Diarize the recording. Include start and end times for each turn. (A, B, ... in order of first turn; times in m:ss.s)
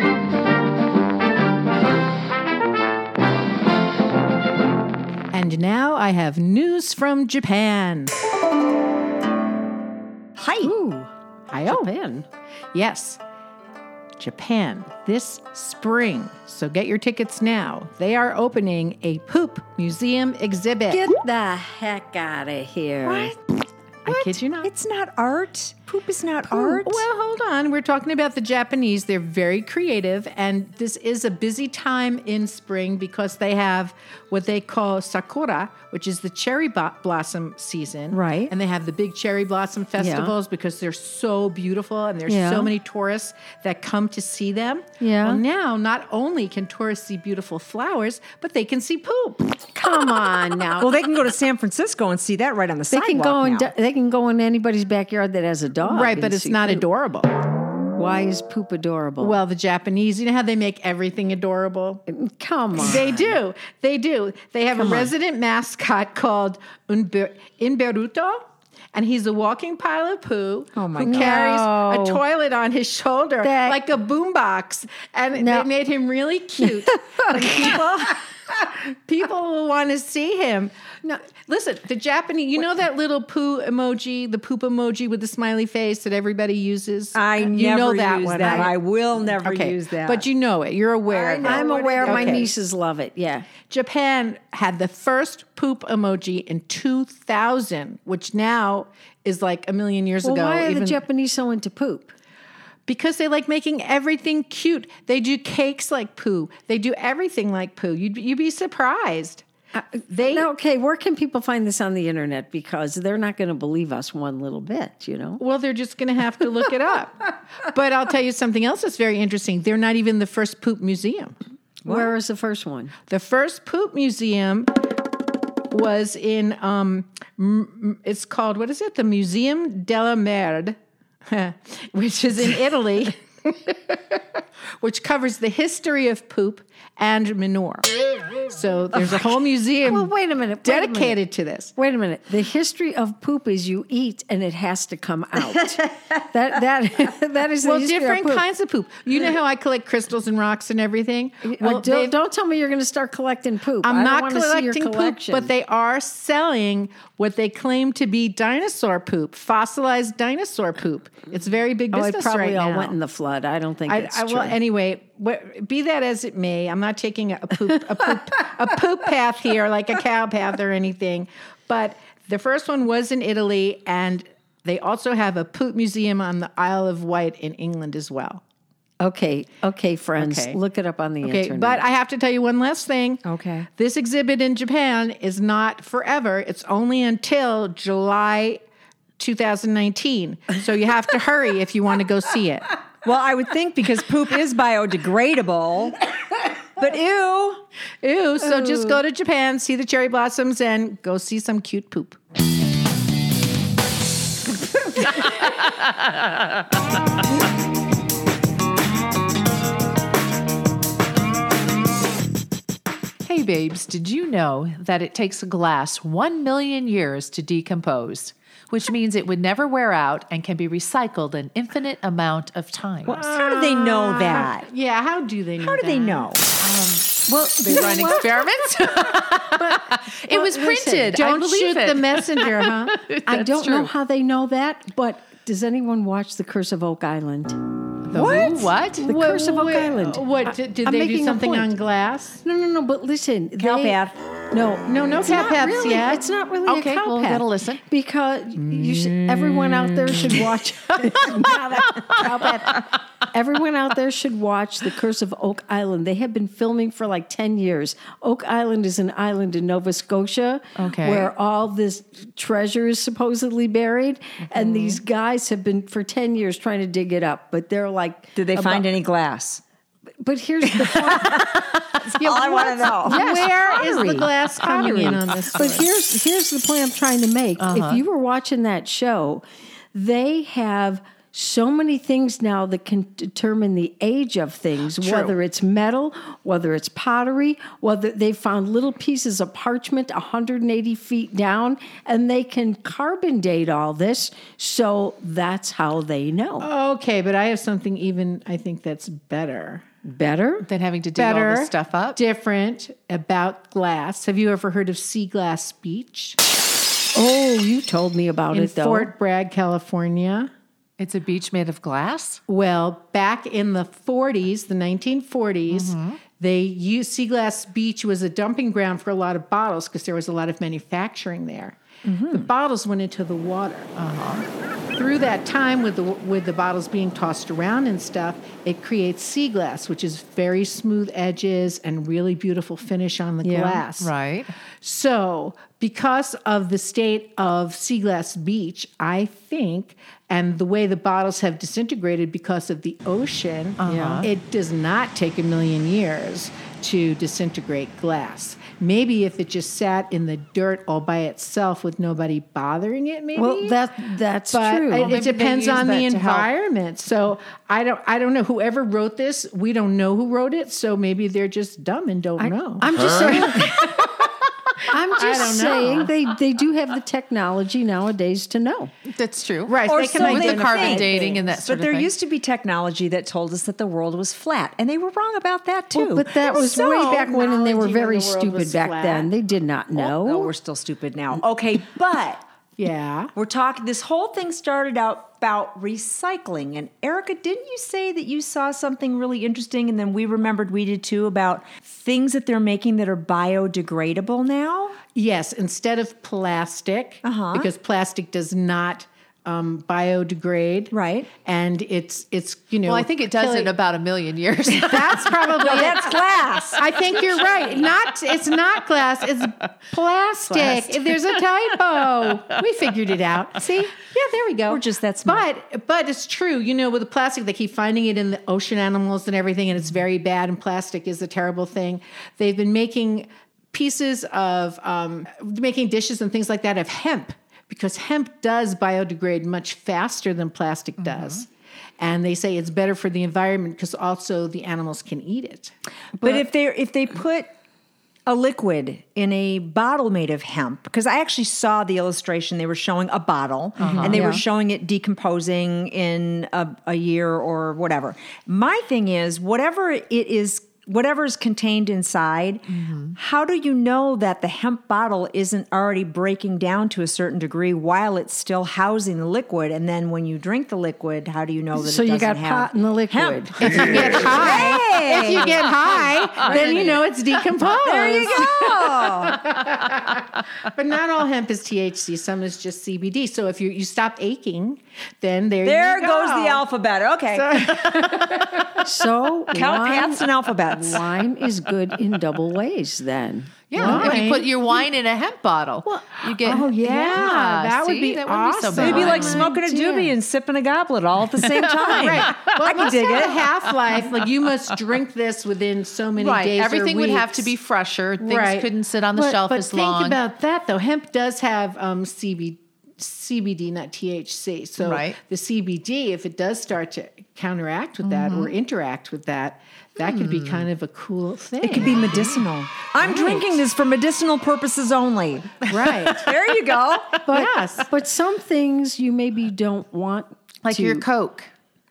0:05.3-0:08.1 A
0:10.4-0:10.7 B
0:10.6-0:11.1 C
0:11.5-0:11.9 A
0:11.6-0:12.3 C
0:12.7-0:13.2 A
0:14.2-0:21.0 A
0:20.9-0:23.3 C
0:24.0-0:24.7 A
0:24.1-0:27.0 B
0:26.5-0:49.5 A
0:38.1-0:38.5 C
0:40.0-0:40.3 C
0:42.3-0:42.7 C
0:45.0-0:45.4 C
0:49.7-0:50.9 C
0:50.8-0:53.7 B
0:52.9-0:56.8 C
0:55.8-0:57.3 A
0:58.0-0:59.4 C
0:59.2-1:02.0 A
1:02.1-1:03.3 C
1:02.7-1:08.4 A
1:04.7-1:05.1 C
1:08.9-1:17.8 A
1:10.7-1:11.4 B
1:11.0-1:12.2 C
1:13.4-1:13.8 C
1:15.4-1:15.7 C
1:16.6-1:17.8 C
1:17.4-1:18.1 B
1:19.0-1:20.7 A
1:21.4-1:28.8 A
1:27.1-1:30.2 B
1:28.3-1:28.6 C
1:29.3-1:32.5 A
1:31.1-1:32.5 B
1:31.4-1:33.4 C
1:33.7-1:41.0 A
1:40.2-1:42.1 C
1:42.9-1:49.4 A
1:49.7-1:55.4 C
1:50.1-1:50.5 A
1:55.4-2:01.3 A
2:01.8-2:02.9 C
2:03.1-2:04.7 A
2:05.7-2:10.8 A
2:11.3-2:14.2 A
2:14.8-2:17.9 A
2:18.5-2:20.1 A
2:19.8-2:21.2 C
2:20.6-2:21.7 A
2:21.8-2:28.4 C
2:27.6-2:32.1 A
2:31.4-2:35.5 C
2:33.8-2:43.0 A
2:41.9-2:44.6 C
2:43.9-2:58.4 A
2:59.0-3:01.8 C
3:00.2-3:00.6 A
3:01.2-3:03.2 A
3:03.2-3:03.7 B
3:03.8-3:08.6 A
3:09.2-3:12.7 A
3:13.0-3:15.9 B
3:16.8-3:17.6 B
3:18.0-3:22.2 A
3:18.4-3:19.0 C
3:33.2-3:43.2 D
3:43.0-3:44.7 B
3:43.1-3:46.3 A
3:45.6-3:46.4 B
3:46.6-3:47.2 D
3:47.3-3:49.0 C
3:47.6-3:49.2 A
3:47.8-3:53.9 D
3:50.3-3:51.1 C
3:50.8-3:53.0 A
3:53.2-3:57.6 C
3:58.1-3:59.0 D
3:58.1-4:02.4 A
3:59.0-4:01.7 C
4:02.4-4:04.0 C
4:03.6-4:04.1 B
4:04.5-4:28.9 C
4:04.9-4:06.2 A
4:06.6-4:07.8 D
4:08.6-4:10.4 A
4:11.3-4:12.1 D
4:20.8-4:21.3 D
4:24.5-4:25.0 D
4:28.4-4:29.6 B
4:30.2-4:31.6 C
4:30.6-4:31.4 B
4:32.0-4:33.2 B
4:32.2-4:35.8 A
4:33.0-4:56.7 C
4:37.6-4:38.0 D
4:45.0-4:45.3 A
4:56.6-4:59.8 A
5:00.0-5:00.6 C
5:00.6-5:02.2 D
5:01.2-5:06.4 A
5:07.1-5:09.1 C
5:08.5-5:10.5 A
5:11.0-5:12.4 D
5:12.5-5:21.8 A
5:15.7-5:16.2 D
5:22.0-5:22.5 B
5:22.3-5:23.9 A
5:24.0-5:24.5 D
5:25.0-5:34.1 A
5:33.4-5:33.8 C
5:34.0-5:34.5 D
5:34.8-5:53.8 A
5:43.8-5:44.3 D
5:43.8-5:44.3 C
5:53.4-5:55.2 C
5:54.5-6:04.1 A
5:55.0-5:56.5 D
6:02.4-6:03.9 C
6:04.9-6:08.9 C
6:05.1-6:06.1 A
6:09.0-6:12.1 D
6:09.7-6:11.5 A
6:09.8-6:16.7 B
6:15.9-6:20.5 C
6:16.3-6:19.3 A
6:19.9-6:22.4 B
6:22.8-6:23.3 A
6:23.3-6:34.9 B
6:35.1-6:43.7 A
6:37.2-6:37.7 B
6:40.9-6:41.3 B
6:42.8-6:45.9 D
6:44.7-6:46.2 A
6:45.6-6:46.8 B
6:46.8-7:11.5 A
6:46.9-6:48.1 D
6:51.0-6:51.3 D
6:53.6-6:54.0 B
6:54.7-6:55.4 B
7:11.0-7:11.4 D
7:12.0-7:15.7 A
7:16.2-7:17.5 B
7:18.3-7:45.6 B
7:23.8-7:24.2 D
7:24.0-7:24.4 C
7:32.7-7:33.1 D
7:41.8-7:43.9 C
7:43.6-7:50.2 A
7:45.2-7:47.1 D
7:47.8-7:49.4 B
7:50.7-7:56.6 A
7:55.6-7:57.6 B
7:57.3-7:58.8 A
7:58.8-8:04.2 C
7:59.5-8:01.1 B
8:03.7-8:09.5 D
8:03.7-8:04.8 A
8:06.4-8:09.5 A
8:06.4-8:07.4 B
8:08.8-8:13.4 B
8:09.3-8:10.1 C
8:11.4-8:14.0 D
8:11.9-8:17.5 A
8:16.2-8:20.2 D
8:18.2-8:32.4 A
8:24.8-8:25.2 D
8:28.0-8:28.5 D
8:30.0-8:30.7 D
8:31.6-8:35.6 B
8:33.0-8:33.5 A
8:35.7-8:36.3 A
8:35.8-8:36.3 D
8:36.2-8:37.2 B
8:37.2-8:41.0 C
8:37.3-8:37.9 A
8:40.6-8:41.5 D